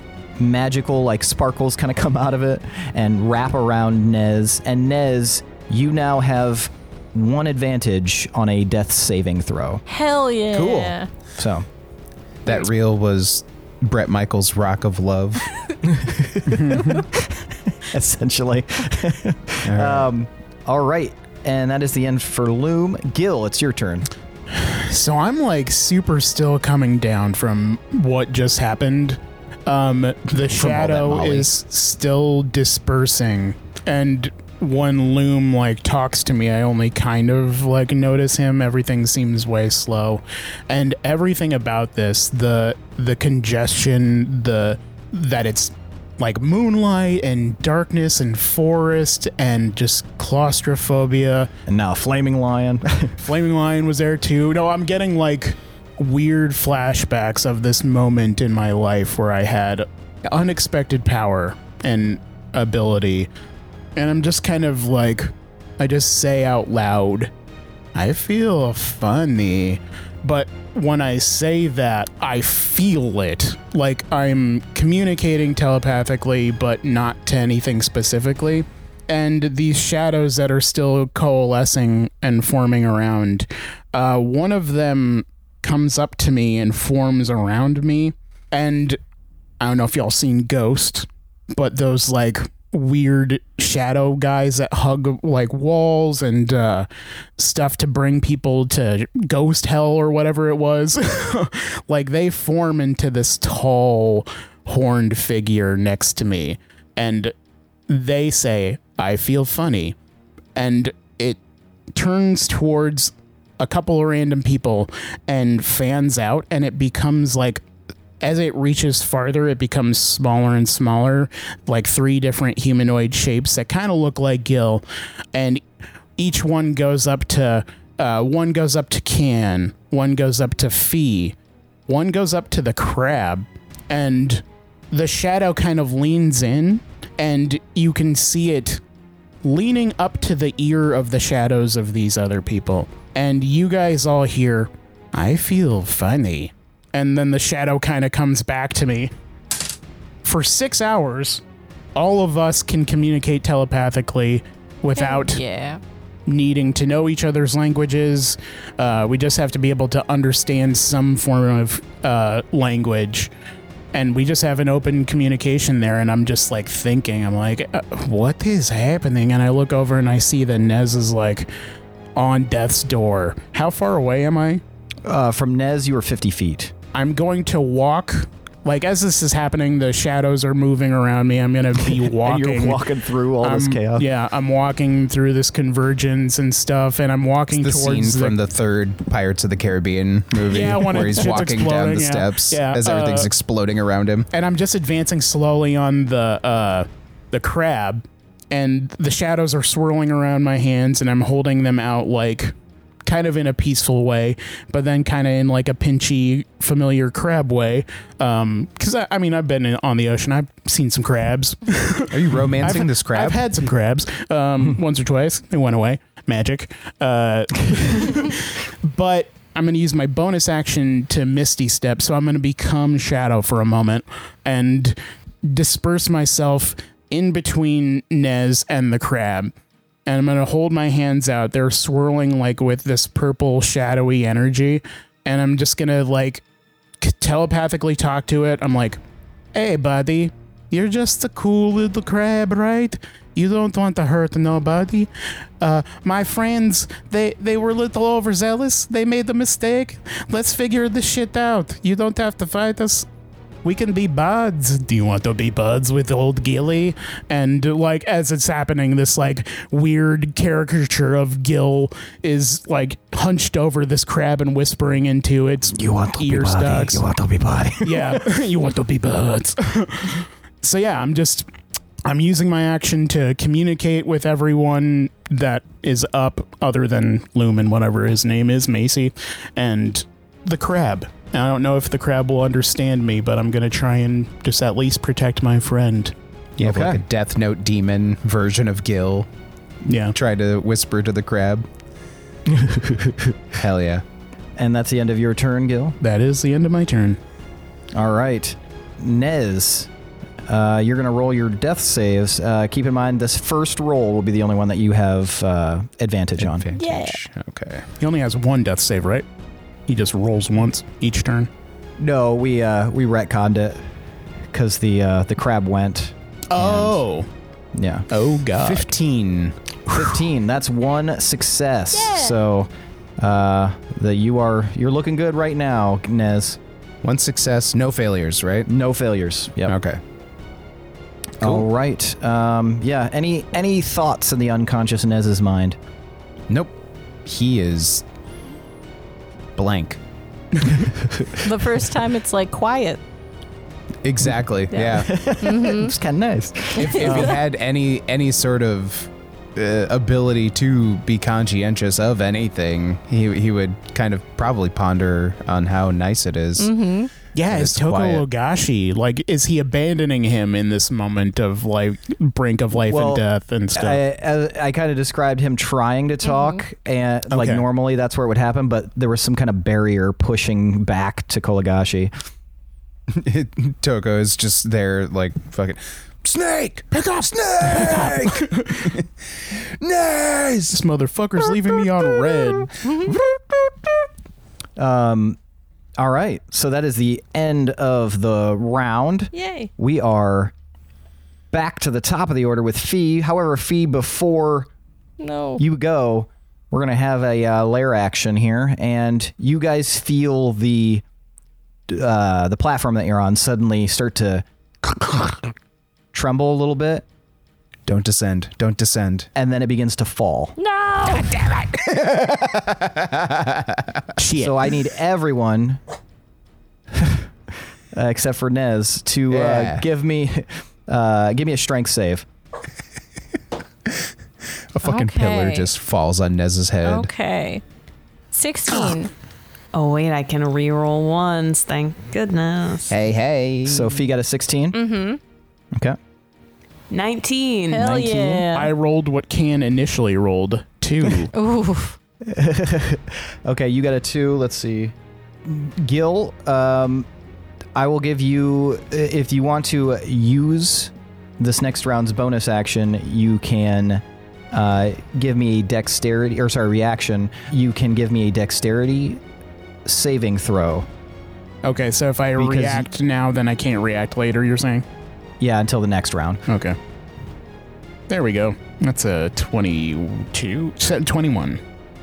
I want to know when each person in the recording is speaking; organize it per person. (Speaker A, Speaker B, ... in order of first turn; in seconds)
Speaker A: 0.4-9.8, 10.5-11.6, 15.8-24.1, 51.7-53.1, 175.1-176.7, 182.2-184.1, 265.7-268.2, 286.6-287.0, 292.5-293.3, 294.6-295.9, 297.9-299.9, 300.5-306.7, 312.0-313.8, 314.5-317.0, 317.7-318.1, 319.9-326.6, 328.7-329.7, 331.4-335.8, 340.8-341.3, 344.9-347.4, 362.9-363.2, 363.7-372.1, 384.8-385.4, 386.0-390.5, 391.5-394.7, 395.6-401.0, 401.9-404.4, 406.1-407.1, 409.3-410.5, 414.4-415.8, 416.9-417.3, 417.9-422.3, 433.6-434.8, 442.3-444.9, 445.4-447.1, 447.7-459.2, 459.9-460.9, 462.4-462.9, 465.4-466.4
Speaker B: 9.9-11.1, 154.9-155.8, 306.7-307.2, 321.9-322.3, 341.4-343.0, 344.7-345.9, 346.8-347.2, 356.6-357.1, 366.2-366.6, 382.8-383.1, 389.3-389.7, 395.2-395.6, 410.6-411.3, 424.8-425.7, 426.8-427.6, 428.3-429.1, 434.7-435.2, 437.7-438.7, 441.3-441.9
Speaker C: 12.4-15.5, 19.6-20.1, 30.6-31.5, 187.5-194.3, 212.1-213.4, 286.6-289.3, 290.1-291.6, 293.6-294.0, 306.4-307.9, 318.6-319.6, 327.0-328.7, 329.6-330.0, 331.4-331.6, 337.2-338.0, 339.6-340.0, 344.1-345.1, 346.8-356.7, 357.5-358.3, 373.1-379.1, 379.8-380.8, 407.9-409.3, 411.1-414.0, 419.3-419.8, 424.7-427.1, 432.9-434.0
Speaker D: 16.6-16.9, 24.5-51.5, 53.2-63.3, 64.0-67.3, 67.9-89.0, 89.6-96.9, 97.4-107.3, 107.9-110.0, 110.5-111.4, 111.9-117.6, 118.2-124.8, 125.3-125.6, 126.2-131.3, 131.9-138.8, 139.4-149.1, 150.2-151.4, 151.9-155.4, 156.3-163.3, 163.9-171.5, 172.2-174.6, 176.9-182.9, 183.4-188.4, 190.4-193.3, 194.3-229.5, 230.1-236.4, 237.0-239.0, 239.5-245.1, 245.6-253.1, 253.6-267.0, 267.8-271.5, 272.1-286.1, 289.8-290.1, 296.0-297.2, 308.0-309.2, 309.9-311.5, 316.5-317.3, 318.1-318.9, 357.3-364.0, 377.7-378.9, 380.7-382.8, 414.2-414.7, 438.4-441.3, 461.6-464.8, 466.5-466.8, 468.1-471.6
Speaker E: 429.7-432.9, 436.9-437.9